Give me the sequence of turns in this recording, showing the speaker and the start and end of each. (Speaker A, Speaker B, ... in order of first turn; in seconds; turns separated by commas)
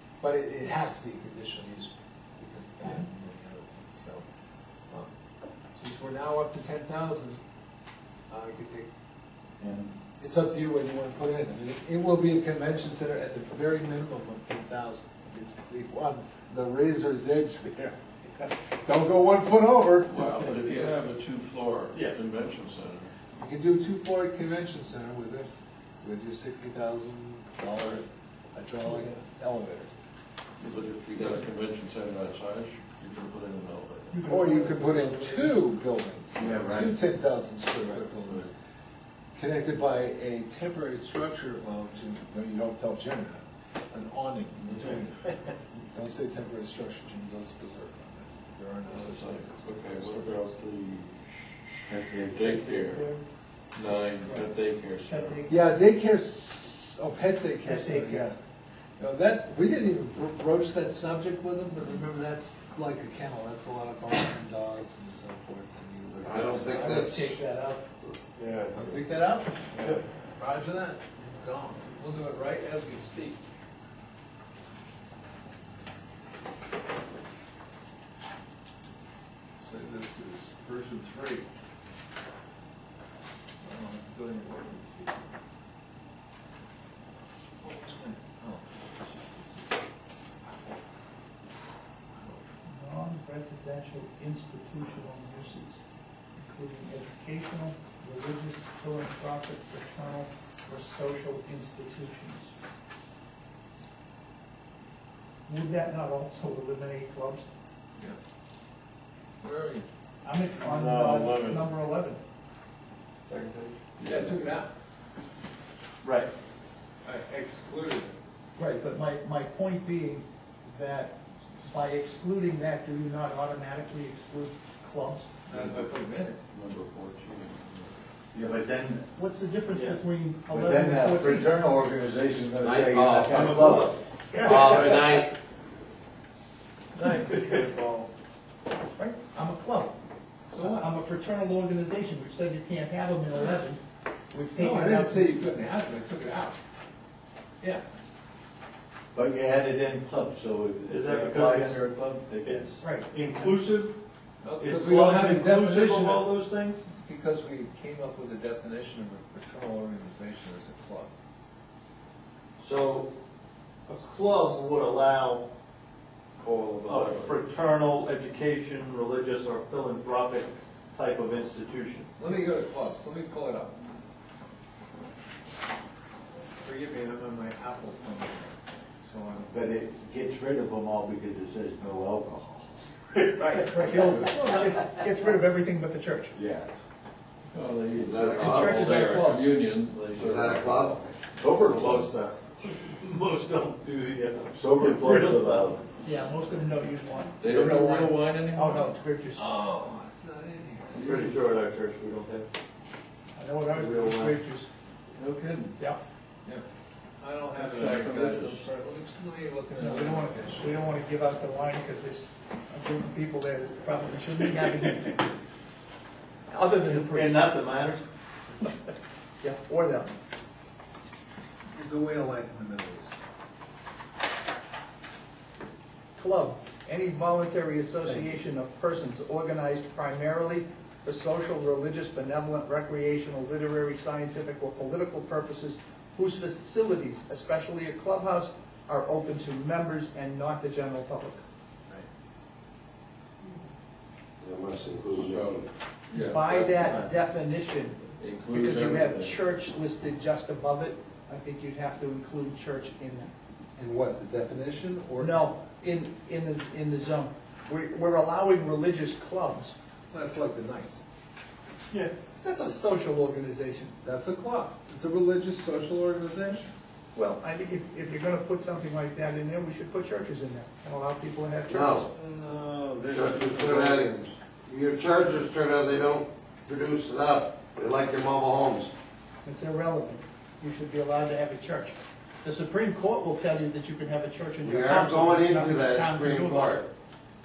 Speaker A: 0.2-4.2, Speaker A: 5.7-7.4, Speaker A: 8.3-8.9, Speaker B: 9.6-9.9, Speaker A: 10.2-20.6, Speaker C: 20.1-23.1, Speaker A: 23.4-25.5, Speaker A: 26.0-29.9, Speaker C: 30.6-34.2, Speaker D: 34.1-35.5, Speaker A: 34.3-38.5, Speaker B: 36.4-36.9, Speaker E: 36.4-36.7, Speaker C: 37.7-38.5, Speaker A: 39.3-50.4, Speaker C: 48.9-53.1, Speaker B: 51.9-52.3, Speaker D: 52.8-53.2, Speaker C: 53.7-55.4, Speaker D: 54.2-54.5, Speaker D: 55.0-55.6, Speaker A: 55.5-58.4, Speaker D: 57.6-58.3, Speaker A: 59.0-67.2, Speaker E: 66.2-67.3, Speaker D: 66.6-67.9, Speaker F: 68.4-68.8, Speaker A: 68.7-73.4, Speaker A: 79.6-81.5, Speaker A: 83.6-85.4, Speaker A: 87.6-89.8, Speaker A: 92.2-92.4, Speaker D: 92.7-95.8, Speaker D: 96.4-102.5, Speaker D: 105.5-107.5, Speaker A: 109.4-109.8, Speaker D: 110.2-112.2, Speaker F: 110.6-111.6, Speaker F: 113.3-113.8, Speaker C: 114.0-114.3, Speaker A: 114.0-114.7, Speaker F: 116.0-116.3, Speaker A: 117.0-118.2, Speaker D: 118.5-125.3, Speaker A: 125.5-126.4, Speaker C: 125.5-125.9, Speaker C: 126.4-127.9, Speaker B: 128.3-129.0, Speaker D: 129.1-131.5, Speaker F: 129.7-130.0, Speaker B: 130.5-133.9, Speaker E: 132.6-133.8, Speaker F: 133.3-134.7, Speaker D: 134.3-135.3, Speaker E: 134.4-135.3, Speaker D: 136.9-137.7, Speaker F: 137.0-138.1, Speaker D: 138.9-139.9, Speaker A: 140.5-140.9, Speaker D: 140.6-145.3, Speaker A: 144.6-146.6, Speaker B: 149.1-152.7, Speaker F: 150.8-153.9, Speaker D: 152.8-153.7, Speaker A: 154.4-161.1, Speaker F: 154.6-156.8, Speaker F: 162.6-163.1, Speaker F: 163.9-165.4, Speaker C: 166.4-167.4, Speaker F: 166.8-172.1, Speaker A: 172.2-173.8, Speaker A: 176.6-179.7, Speaker B: 179.5-182.8, Speaker D: 183.3-186.3, Speaker B: 186.3-186.7, Speaker C: 187.5-191.0, Speaker E: 188.0-188.8, Speaker D: 188.3-189.5, Speaker F: 188.4-190.1, Speaker E: 190.1-191.1, Speaker B: 191.4-192.0, Speaker F: 191.6-195.8, Speaker B: 194.5-195.8, Speaker D: 196.0-199.4, Speaker C: 197.4-198.9, Speaker A: 199.3-201.0, Speaker C: 200.9-201.4, Speaker F: 201.0-202.5, Speaker D: 203.3-204.7, Speaker F: 203.7-204.4, Speaker C: 205.2-205.7, Speaker A: 207.2-210.8, Speaker C: 207.5-208.6, Speaker D: 209.8-215.3, Speaker D: 216.5-217.6, Speaker F: 216.8-218.1, Speaker D: 219.4-220.1, Speaker A: 221.7-223.2, Speaker D: 226.2-241.4, Speaker E: 244.4-245.6, Speaker C: 245.1-247.0, Speaker D: 246.1-253.3, Speaker C: 248.2-249.3, Speaker A: 253.8-255.5, Speaker D: 255.2-259.7, Speaker A: 260.1-261.0, Speaker D: 261.9-263.9, Speaker A: 264.0-266.7, Speaker D: 267.1-272.1, Speaker E: 271.7-272.1, Speaker A: 272.7-273.5, Speaker E: 273.1-278.9, Speaker D: 279.4-286.8, Speaker E: 284.6-286.9